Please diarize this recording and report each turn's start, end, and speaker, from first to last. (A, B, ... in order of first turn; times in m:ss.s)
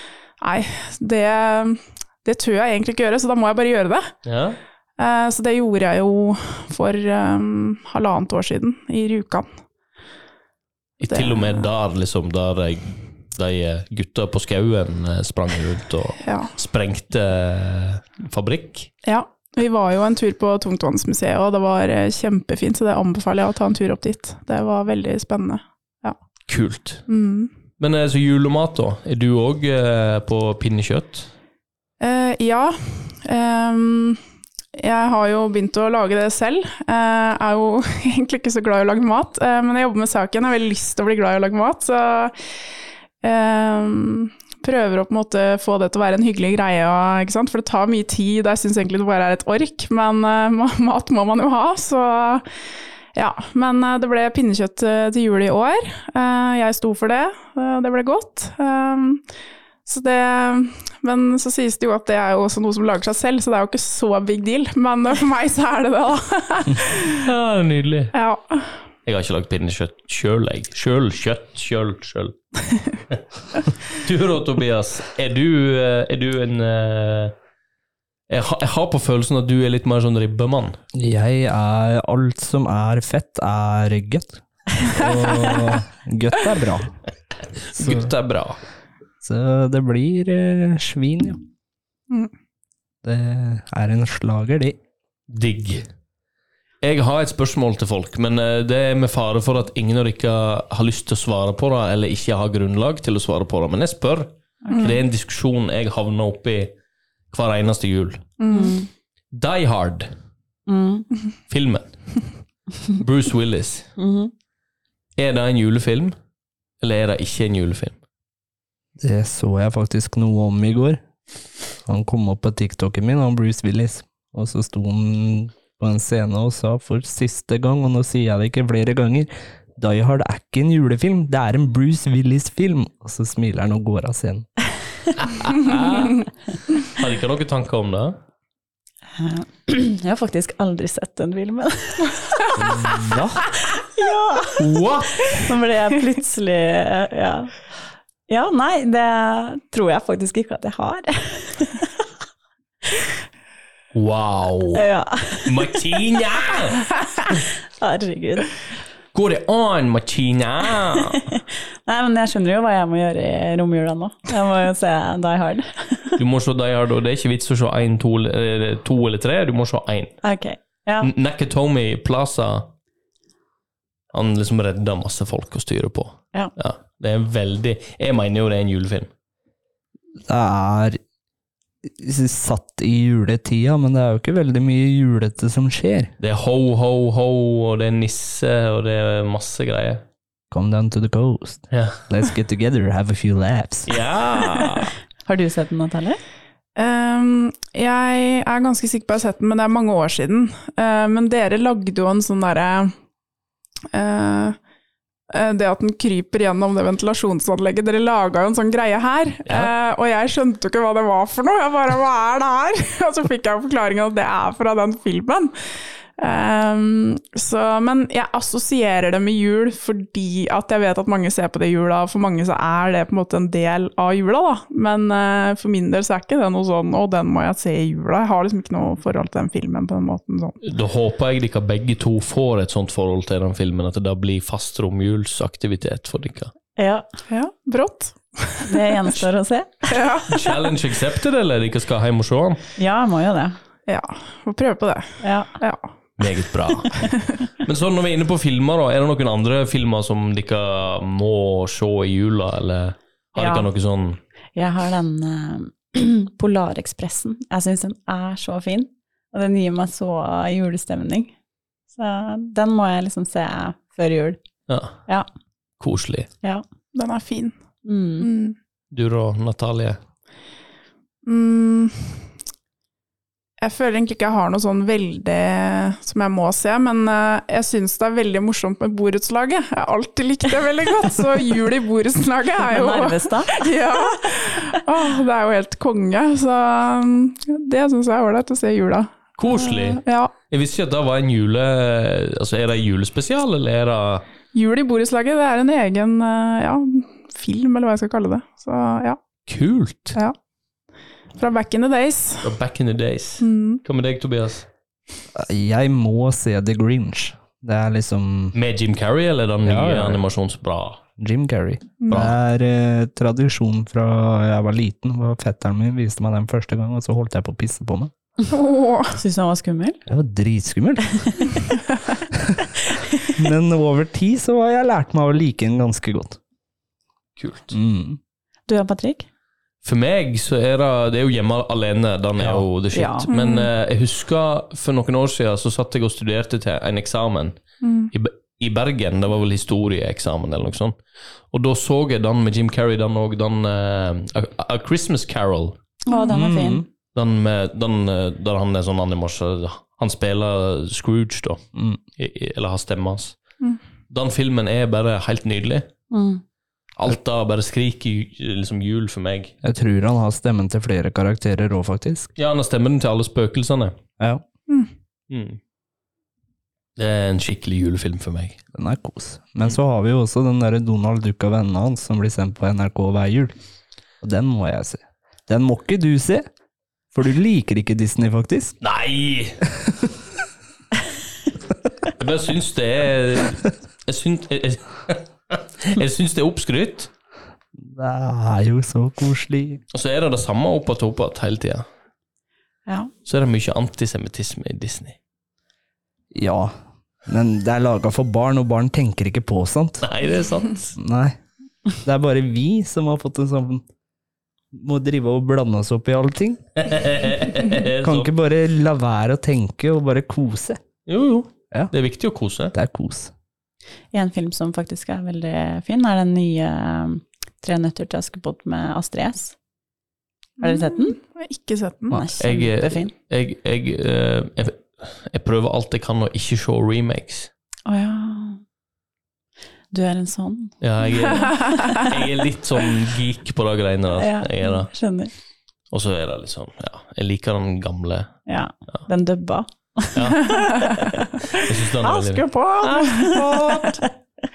0:00.4-0:04.1 A
0:04.2-0:04.6 B
0:05.0-0:09.5 A
0:11.0-0:18.9 B
0:11.1-0:11.7 A
0:16.2-0:16.5 A
0:19.0-0:26.2 A
0:26.5-0:27.0 B
0:27.1-0:27.5 A
0:27.8-0:31.3 B
0:32.0-0:34.2 A
0:34.8-0:42.4 A
0:43.2-0:52.4 A
0:53.1-0:59.2 A
0:59.9-1:07.2 A
1:07.2-1:08.1 B
1:08.1-1:08.7 A
1:09.1-1:12.4 B
1:13.9-1:17.3 B
1:18.3-1:20.8 B
1:20.9-1:27.0 C
1:25.3-1:25.6 A
1:27.7-1:28.6 B
1:27.8-1:28.1 C
1:29.2-1:31.4 C
1:33.0-1:34.8 C
1:35.3-1:35.9 B
1:36.8-1:46.7 B
1:44.6-1:45.0 D
1:44.7-1:45.0 A
1:47.3-1:48.3 B
1:48.4-1:48.8 A
1:48.5-1:48.9 D
1:49.3-1:50.1 B
1:50.7-1:51.1 D
1:51.5-1:51.9 B
1:52.9-1:53.9 B
1:54.0-1:54.3 D
1:55.2-1:56.2 B
1:56.8-1:58.0 B
1:59.0-2:01.0 C
2:01.9-2:14.5 C
2:15.2-2:18.2 B
2:19.2-2:22.6 D
2:22.6-2:23.4 C
2:23.7-2:24.6 D
2:24.6-2:25.5 B
2:25.3-2:27.7 D
2:28.3-2:31.9 D
2:33.9-2:34.9 B
2:34.7-2:35.8 D
2:35.4-2:36.9 B
2:37.7-2:38.5 D
2:39.1-2:41.3 B
2:41.1-2:46.2 D
2:46.2-2:50.2 B
2:50.2-2:51.1 D
2:51.0-2:52.7 B
2:54.1-2:59.1 B
3:00.3-3:01.0 C
3:01.8-3:06.1 C
3:06.2-3:10.0 B
3:10.5-3:13.9 C
3:11.7-3:12.0 B
3:13.9-3:14.9 B
3:15.3-3:16.2 D
3:16.8-3:22.9 A
3:23.9-3:24.6 A
3:25.3-3:35.5 A
3:29.5-3:29.7 B
3:36.2-3:50.6 A
3:50.6-3:56.5 B
3:56.8-3:57.1 D
3:57.3-3:59.2 A
3:58.7-4:00.1 D
3:59.9-4:00.5 A
4:00.3-4:02.6 B
4:02.8-4:03.6 D
4:03.9-4:05.9 A
4:05.2-4:05.5 D
4:06.2-4:14.2 B
4:07.0-4:07.3 A
4:13.4-4:13.7 D
4:14.6-4:21.3 D
4:21.9-4:24.4 D
4:24.7-4:25.0 B
4:25.8-4:26.3 B
4:26.9-4:27.6 A
4:27.8-4:28.3 D
4:28.2-4:28.6 A
4:28.9-4:30.0 B
4:31.2-4:32.2 A
4:33.6-4:50.3 A
4:42.6-4:44.1 D
4:49.4-4:54.2 B
4:54.5-4:59.2 A
4:59.5-5:00.2 B
5:01.4-5:02.5 A
5:02.4-5:04.7 B
5:03.4-5:03.8 A
5:05.4-5:08.6 C
5:08.6-5:11.0 B
5:09.6-5:10.2 C
5:11.2-5:18.1 C
5:12.0-5:12.3 A
5:12.1-5:12.4 B
5:18.5-5:19.2 A
5:19.1-5:20.0 D
5:20.1-5:21.4 C
5:21.2-5:21.6 D
5:22.3-5:22.6 C
5:23.0-5:23.3 D
5:23.3-5:26.4 C
5:27.4-5:27.8 B
5:27.7-5:28.2 C
5:28.7-5:29.3 D
5:29.8-5:37.6 B
5:32.4-5:32.6 C
5:32.9-5:33.3 D
5:33.3-5:33.7 A
5:37.8-5:38.1 A
5:38.1-5:41.0 B
5:41.5-5:45.8 B
5:46.1-5:46.8 D
5:46.3-5:46.9 C
5:47.1-5:51.6 B
5:51.8-5:52.0 C
5:52.2-5:53.4 B
5:54.1-5:55.9 B
5:56.1-5:56.4 D
5:57.0-5:59.5 B
5:59.6-6:02.3 C
6:02.4-6:04.0 B
6:05.3-6:05.6 B
6:07.0-6:08.6 B
6:08.7-6:13.5 C
6:14.2-6:16.5 C
6:17.1-6:18.8 C
6:18.8-6:19.6 B
6:19.8-6:20.1 C
6:22.2-6:27.1 B
6:27.8-6:29.8 C
6:29.9-6:31.8 B
6:33.3-6:35.2 B
6:36.3-6:36.7 C
6:37.3-6:40.1 C
6:40.0-6:41.0 B
6:41.0-6:41.4 C
6:42.0-6:43.8 C
6:44.7-6:46.6 C
6:46.8-6:48.3 B
6:48.0-6:50.8 C
6:51.1-6:52.7 B
6:52.7-6:53.3 C
6:54.1-6:59.6 D
7:00.6-7:02.2 A
7:00.6-7:01.2 D
7:02.1-7:03.1 D
7:02.4-7:07.5 B
7:07.9-7:08.6 D
7:09.9-7:12.1 D
7:10.8-7:14.9 B
7:11.4-7:12.0 A
7:14.2-7:15.3 D
7:15.9-7:18.4 B
7:18.5-7:24.0 D
7:20.1-7:20.6 B
7:21.5-7:24.0 B